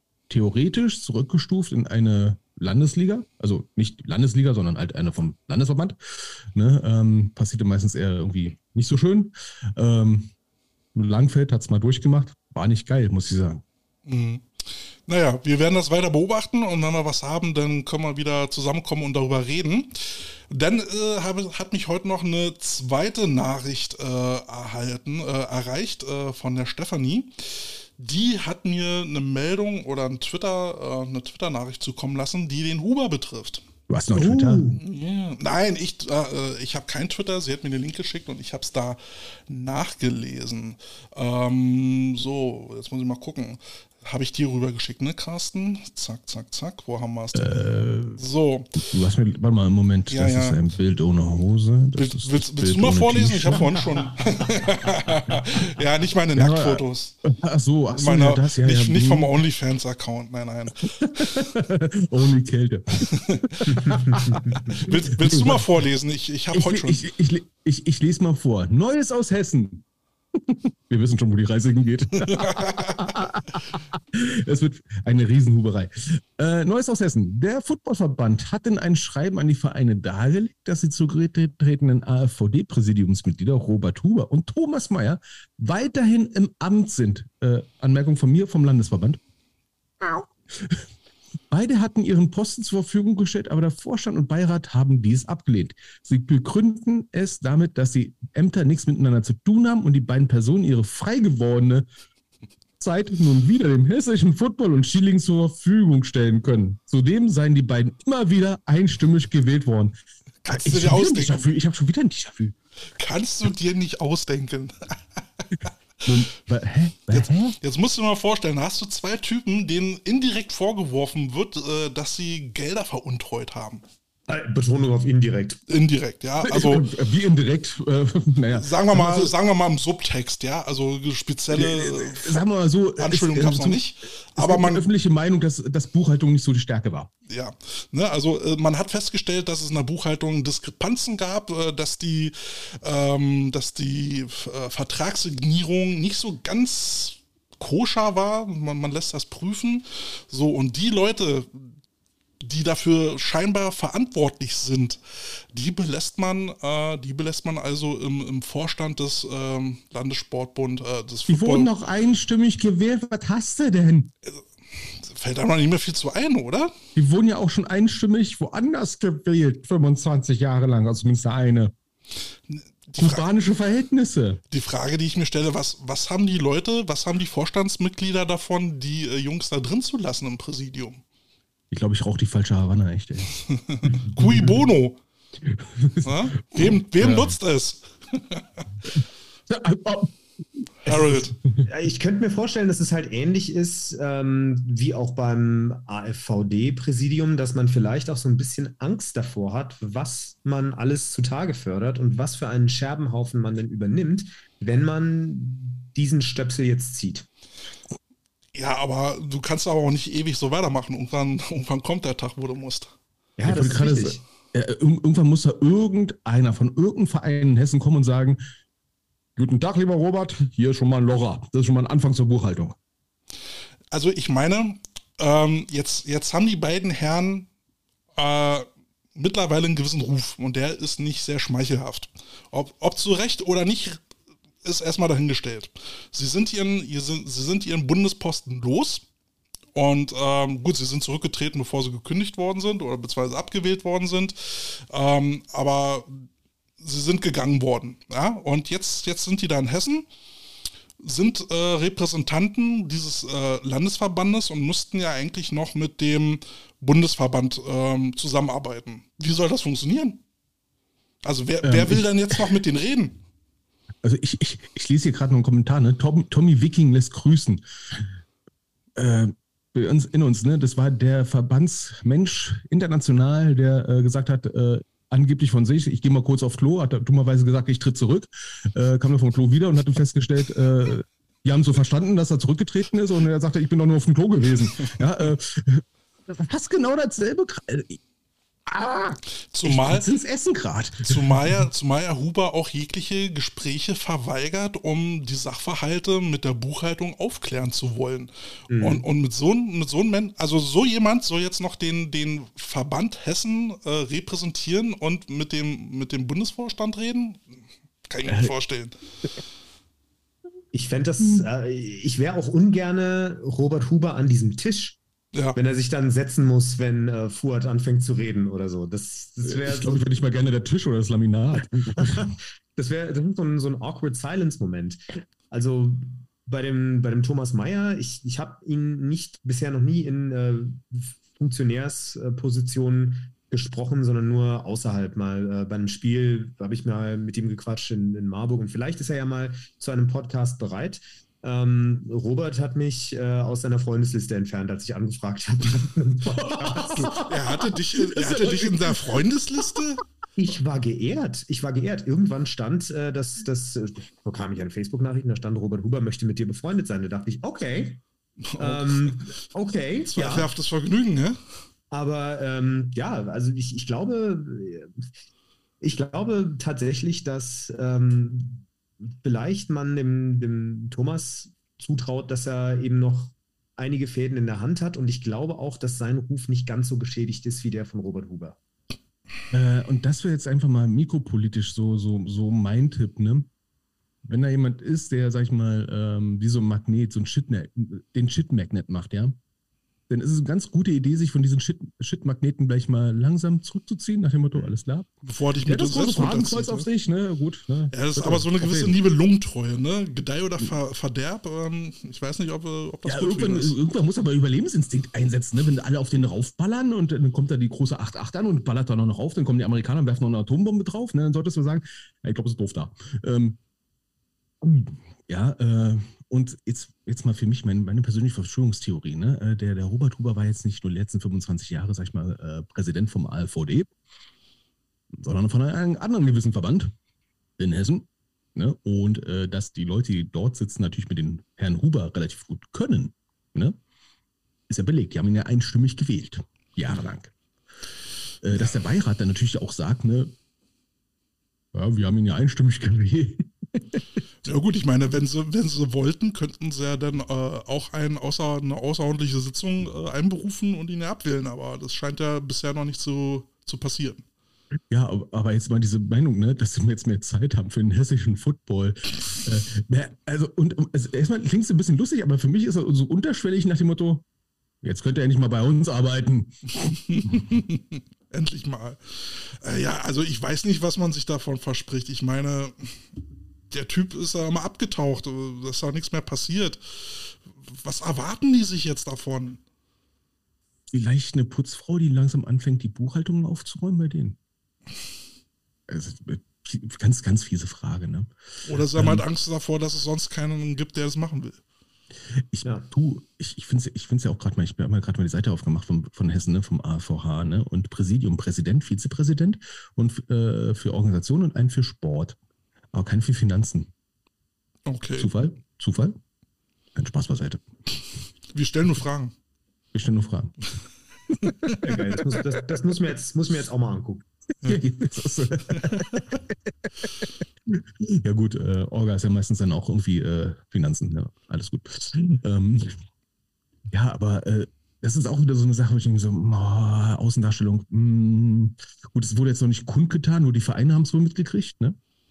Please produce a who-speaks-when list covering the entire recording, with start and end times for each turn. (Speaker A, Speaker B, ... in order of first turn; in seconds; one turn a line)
Speaker A: 0.3-10.3
Speaker A: 10.9-13.6
Speaker B: 14.1-33.6
Speaker A: 33.9-34.6
Speaker C: 34.1-34.8
Speaker B: 34.8-48.9
Speaker A: 47.3-48.2
Speaker A: 48.8-53.8
Speaker B: 50.1-50.6
Speaker B: 52.0-57.1
Speaker A: 56.4-59.3
Speaker B: 58.0-60.9
Speaker A: 61.0-65.6
Speaker B: 63.1-63.8
Speaker C: 63.8-64.6
Speaker B: 64.7-67.0
Speaker A: 66.5-89.2
Speaker B: 72.3-73.0
Speaker A: 90.0-90.9
Speaker A: 91.5-101.9
Speaker A: 102.8-112.5
Speaker B: 110.4-111.5
Speaker B: 113.0-115.2
Speaker A: 116.0-117.6
Speaker B: 117.1-123.8
Speaker C: 124.3-125.6
Speaker B: 125.7-126.9
Speaker A: 126.4-129.3
Speaker B: 128.5-132.4
Speaker A: 131.5-133.8
Speaker B: 133.0-134.9
Speaker A: 134.4-137.1
Speaker B: 137.3-151.7
Speaker B: 152.4-161.7
Speaker A: 161.3-164.1
Speaker B: 164.3-166.8
Speaker A: 166.9-171.7
Speaker B: 172.5-173.3
Speaker A: 173.0-174.4
Speaker B: 174.5-181.0
Speaker A: 181.7-183.3
Speaker B: 183.5-185.0
Speaker A: 183.8-184.5
Speaker A: 185.4-187.3
Speaker B: 186.1-188.6
Speaker A: 189.5-191.7
Speaker B: 190.9-191.3
Speaker C: 191.7-207.3
Speaker B: 208.5-212.9
Speaker C: 213.4-214.2
Speaker A: 213.5-218.4
Speaker A: 219.4-222.8
Speaker B: 223.9-227.5
Speaker B: 228.2-234.0
Speaker B: 234.6-239.1
Speaker B: 239.7-246.3
Speaker B: 246.8-250.1
Speaker B: 251.0-260.2
Speaker B: 261.2-263.2
Speaker A: 261.6-262.1
Speaker A: 264.0-268.1
Speaker A: 269.0-288.0
Speaker A: 288.7-291.4
Speaker B: 289.5-290.1
Speaker B: 291.0-307.6
Speaker C: 298.7-299.1
Speaker B: 308.1-308.9
Speaker A: 308.3-308.5
Speaker C: 310.7-315.0
Speaker C: 315.6-320.1
Speaker A: 319.4-322.3
Speaker C: 321.7-347.3
Speaker A: 346.4-347.3
Speaker B: 347.3-350.0
Speaker A: 347.9-349.0
Speaker C: 350.4-358.0
Speaker B: 358.5-359.3
Speaker C: 358.6-360.5
Speaker B: 360.1-361.4
Speaker C: 361.9-365.0
Speaker C: 365.8-378.6
Speaker A: 379.5-383.5
Speaker A: 384.2-389.4
Speaker A: 390.1-395.1
Speaker B: 395.2-396.9
Speaker A: 395.7-398.9
Speaker B: 397.9-403.8
Speaker A: 403.1-413.6
Speaker A: 414.6-423.9
Speaker A: 425.1-426.9
Speaker A: 427.6-433.8
Speaker A: 434.7-437.3
Speaker A: 438.4-440.3
Speaker A: 441.7-444.0
Speaker B: 444.4-454.2
Speaker A: 454.9-464.2
Speaker A: 464.8-467.4
Speaker B: 467.1-473.0
Speaker B: 473.7-479.6
Speaker A: 480.9-484.4
Speaker A: 485.9-488.3
Speaker B: 488.7-491.6
Speaker A: 488.9-489.2
Speaker A: 492.5-502.4
Speaker A: 502.9-503.9
Speaker B: 504.9-505.3
Speaker A: 505.2-506.2
Speaker A: 507.0-507.6
Speaker B: 508.5-509.3
Speaker A: 509.9-510.6
Speaker C: 511.8-514.2
Speaker A: 514.6-516.3
Speaker A: 517.7-523.0
Speaker A: 523.9-532.0